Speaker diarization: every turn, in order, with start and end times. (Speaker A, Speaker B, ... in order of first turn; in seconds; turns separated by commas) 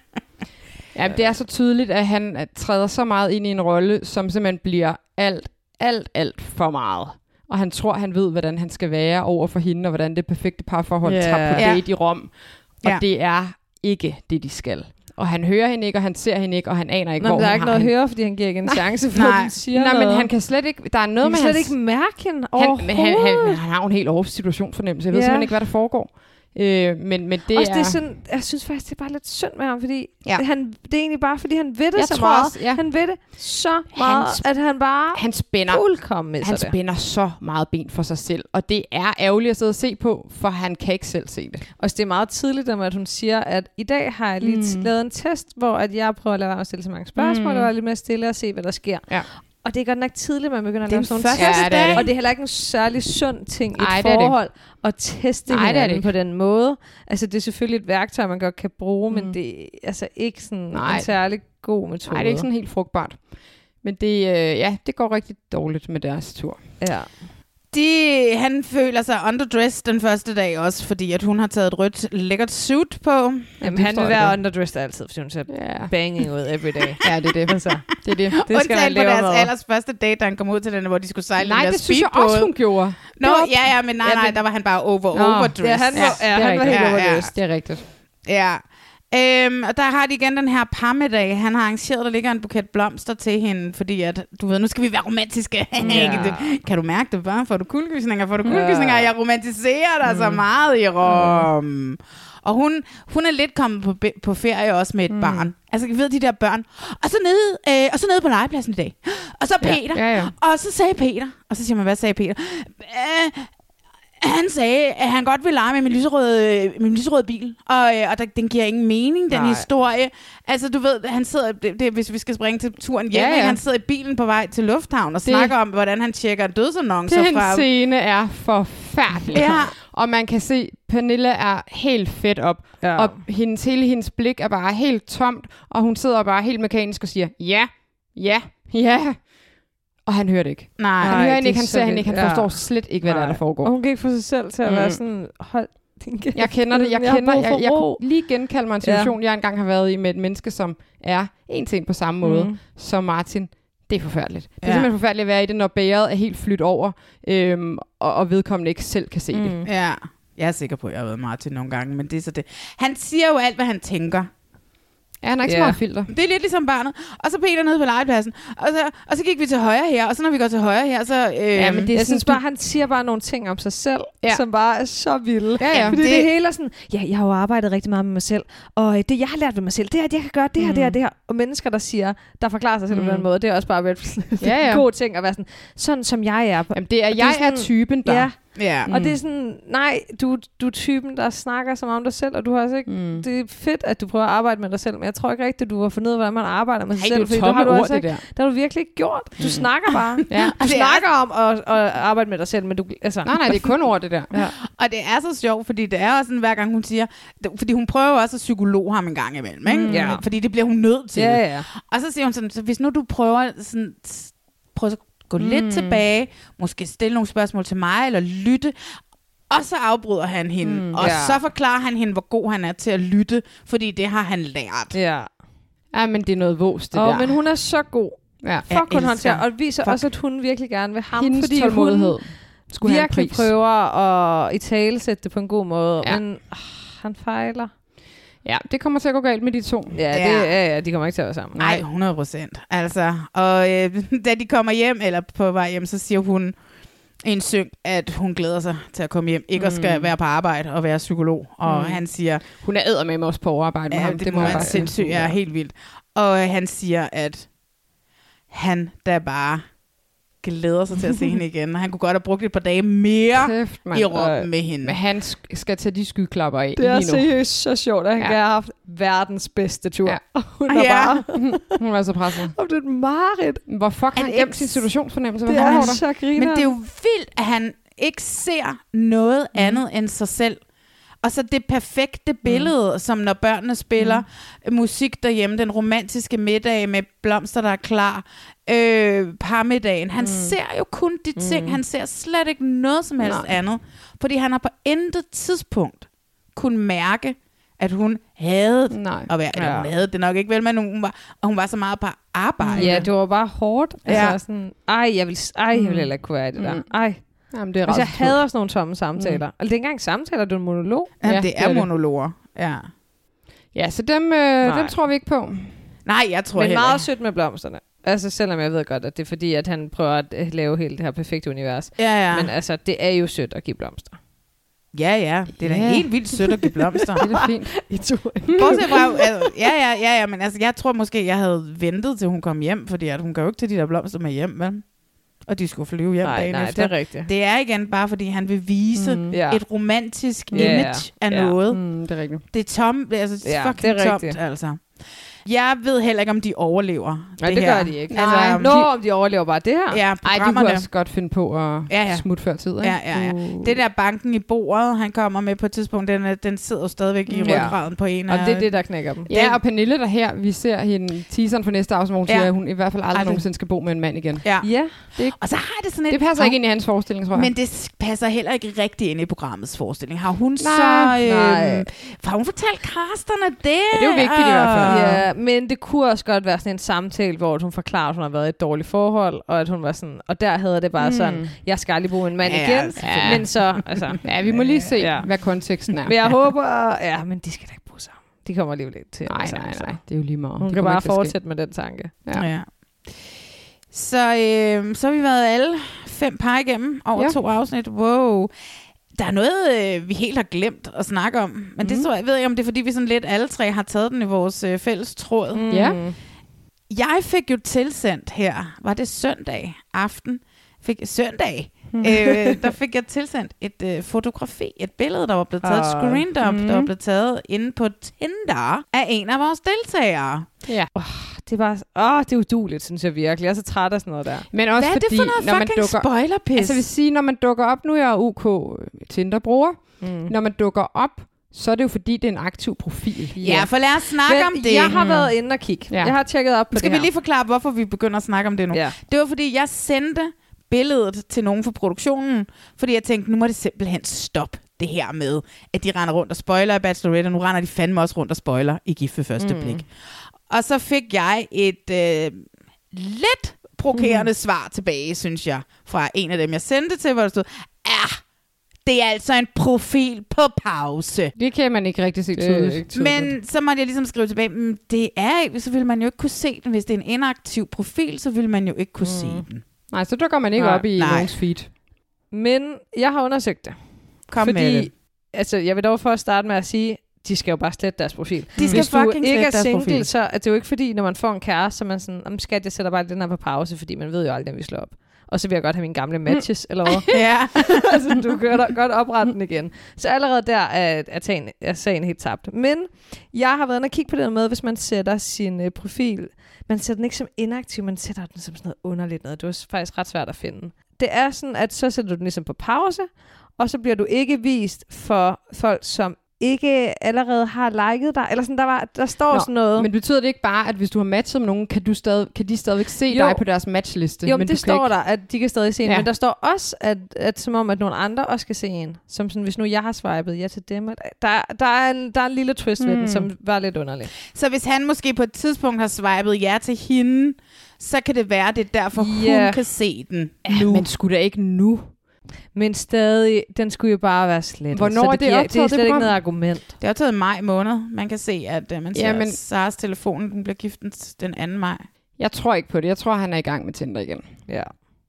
Speaker A: 0.9-17.9, Speaker B: 11.0-11.7, Speaker C: 11.6-11.8, Speaker B: 17.2-20.3, Speaker C: 19.1-19.5, Speaker A: 19.7-21.8, Speaker B: 21.2-23.6, Speaker A: 22.5-28.0, Speaker B: 25.1-25.5, Speaker B: 27.5-36.7, Speaker A: 31.9-32.8, Speaker A: 33.9-34.4, Speaker A: 35.1-41.6, Speaker B: 41.8-62.5, Speaker A: 44.4-44.9, Speaker A: 47.1-47.7, Speaker C: 50.9-52.0, Speaker A: 51.3-52.1, Speaker A: 53.8-54.3, Speaker A: 55.5-56.1, Speaker A: 59.1-59.4, Speaker A: 60.7-61.1, Speaker A: 62.1-63.2, Speaker A: 63.8-66.6, Speaker B: 66.8-67.1, Speaker C: 67.7-73.5, Speaker B: 73.6-77.8, Speaker A: 73.6-74.4, Speaker A: 75.5-75.9, Speaker A: 77.0-78.4, Speaker C: 77.0-77.3, Speaker C: 78.3-82.5, Speaker B: 78.5-79.5, Speaker A: 81.4-84.4, Speaker C: 83.1-87.3, Speaker A: 85.1-87.8, Speaker B: 85.6-87.3, Speaker C: 88.2-113.5, Speaker A: 95.8-96.3, Speaker B: 95.8-96.6, Speaker B: 98.5-99.1, Speaker A: 100.0-100.4, Speaker A: 101.0-101.5, Speaker A: 105.1-105.5, Speaker A: 109.6-110.3, Speaker C: 114.2-127.7, Speaker B: 119.3-119.6, Speaker A: 123.1-123.6, Speaker A: 125.2-125.5, Speaker A: 127.1-139.3, Speaker C: 129.3-129.7, Speaker B: 132.8-133.2, Speaker A: 140.0-143.7, Speaker C: 140.8-141.2, Speaker B: 141.0-148.0, Speaker A: 144.6-145.0, Speaker A: 146.3-159.6, Speaker B: 148.8-149.1, Speaker B: 152.2-152.6, Speaker C: 154.6-154.9, Speaker B: 159.3-159.7, Speaker C: 159.7-164.3, Speaker A: 165.2-166.1, Speaker B: 165.4-165.8, Speaker C: 166.1-171.9, Speaker A: 171.6-172.4, Speaker B: 171.9-203.7, Speaker A: 175.6-176.0, Speaker C: 175.7-176.3, Speaker A: 180.6-181.0, Speaker A: 182.9-183.3, Speaker A: 184.4-184.8, Speaker A: 186.7-188.3, Speaker C: 188.5-188.9, Speaker A: 188.9-189.2, Speaker A: 192.9-193.2, Speaker A: 196.9-198.2, Speaker A: 199.4-199.7, Speaker A: 200.3-200.6, Speaker C: 200.3-201.0, Speaker A: 203.2-204.3, Speaker C: 204.7-219.0, Speaker A: 209.7-210.2, Speaker B: 209.9-210.2, Speaker B: 211.1-211.7, Speaker A: 215.4-216.0, Speaker C: 219.5-224.9, Speaker A: 220.6-221.0, Speaker B: 221.0-221.4, Speaker B: 224.9-225.3, Speaker A: 225.9-227.4, Speaker B: 226.9-237.7, Speaker A: 228.4-228.7, Speaker C: 228.7-230.0, Speaker A: 231.1-233.5, Speaker A: 238.4-240.0, Speaker B: 239.9-241.6, Speaker C: 240.1-240.5, Speaker A: 241.6-241.8, Speaker C: 241.6-246.5, Speaker C: 247.2-252.4, Speaker A: 249.6-250.1, Speaker A: 251.7-252.0, Speaker A: 252.5-255.3, Speaker C: 253.9-257.5, Speaker B: 254.4-255.1, Speaker C: 258.5-259.6, Speaker C: 260.4-265.0, Speaker A: 263.3-264.1, Speaker B: 264.1-264.5, Speaker A: 264.8-267.3, Speaker B: 266.8-271.7, Speaker C: 270.7-271.2, Speaker A: 271.4-272.5, Speaker B: 272.5-273.6, Speaker A: 273.7-276.0, Speaker C: 274.1-274.9, Speaker B: 275.5-276.7, Speaker C: 275.5-280.6, Speaker C: 281.2-303.1, Speaker A: 282.4-282.7, Speaker A: 284.0-284.2, Speaker A: 290.2-290.5, Speaker B: 291.4-291.8, Speaker A: 293.2-293.5, Speaker A: 298.9-299.3, Speaker B: 299.5-299.9, Speaker A: 302.6-303.0, Speaker B: 302.8-307.2, Speaker C: 304.1-304.4, Speaker A: 305.7-306.9, Speaker A: 307.5-308.4, Speaker B: 307.8-311.1, Speaker C: 311.2-312.9, Speaker A: 311.2-311.9, Speaker A: 313.7-315.7, Speaker B: 314.6-314.9, Speaker C: 316.1-317.0, Speaker B: 316.6-324.2, Speaker C: 322.0-322.5, Speaker C: 324.9-327.2, Speaker A: 325.6-326.2, Speaker A: 327.2-328.8, Speaker B: 327.2-329.2, Speaker C: 328.6-334.8, Speaker C: 335.4-341.9, Speaker B: 336.2-337.3, Speaker A: 338.9-339.4, Speaker B: 339.3-339.6, Speaker A: 340.5-340.9, Speaker B: 340.5-341.5, Speaker A: 341.7-342.4, Speaker C: 342.5-344.8, Speaker B: 343.4-344.4, Speaker C: 345.4-348.8, Speaker B: 347.4-350.0, Speaker A: 348.1-348.9, Speaker C: 349.9-350.9, Speaker A: 350.2-353.0, Speaker C: 351.9-358.7, Speaker B: 353.2-353.6, Speaker A: 357.3-357.7, Speaker B: 357.4-359.3, Speaker C: 359.3-359.6, Speaker A: 359.3-364.5, Speaker C: 362.3-363.4, Speaker C: 364.4-375.1, Speaker B: 364.6-364.9, Speaker A: 365.1-365.4, Speaker A: 366.1-367.5, Speaker A: 370.6-371.2, Speaker B: 371.2-371.9, Speaker A: 373.9-375.2, Speaker B: 374.8-384.2, Speaker A: 381.0-381.5, Speaker C: 382.4-383.8, Speaker A: 383.0-383.7, Speaker A: 384.2-386.3, Speaker C: 384.4-384.9, Speaker B: 385.0-392.1, Speaker A: 389.2-391.4, Speaker C: 392.3-393.3, Speaker C: 393.9-398.5, Speaker C: 399.1-405.6, Speaker A: 401.8-402.1, Speaker B: 405.5-406.2, Speaker A: 405.7-406.0, Speaker C: 406.9-420.5, Speaker B: 412.0-412.5, Speaker B: 415.6-416.2, Speaker A: 416.4-416.9, Speaker B: 420.9-424.5, Speaker A: 424.5-433.5, Speaker C: 424.8-426.8, Speaker B: 430.0-430.3, Speaker B: 433.4-437.1, Speaker C: 433.4-435.0, Speaker A: 434.9-436.1, Speaker C: 436.7-449.9, Speaker B: 449.4-449.8, Speaker C: 450.5-458.2, Speaker B: 453.9-454.2, Speaker C: 458.9-461.3, Speaker A: 461.4-463.3, Speaker B: 462.4-462.9, Speaker C: 462.9-469.6, Speaker B: 469.0-469.4, Speaker A: 469.9-471.7, Speaker B: 470.6-470.8, Speaker C: 470.9-471.3, Speaker B: 472.3-509.9, Speaker C: 474.3-474.9, Speaker A: 478.6-478.9, Speaker C: 478.6-480.1, Speaker A: 486.3-487.2, Speaker C: 487.1-487.8, Speaker A: 509.3-514.9, Speaker B: 513.1-513.5, Speaker B: 514.2-524.1, Speaker A: 522.8-523.3, Speaker C: 524.3-530.8, Speaker B: 528.9-529.6, Speaker A: 530.5-531.9, Speaker B: 532.5-536.7, Speaker A: 534.7-536.1, Speaker C: 536.8-541.8, Speaker A: 538.9-539.4, Speaker A: 542.2-544.3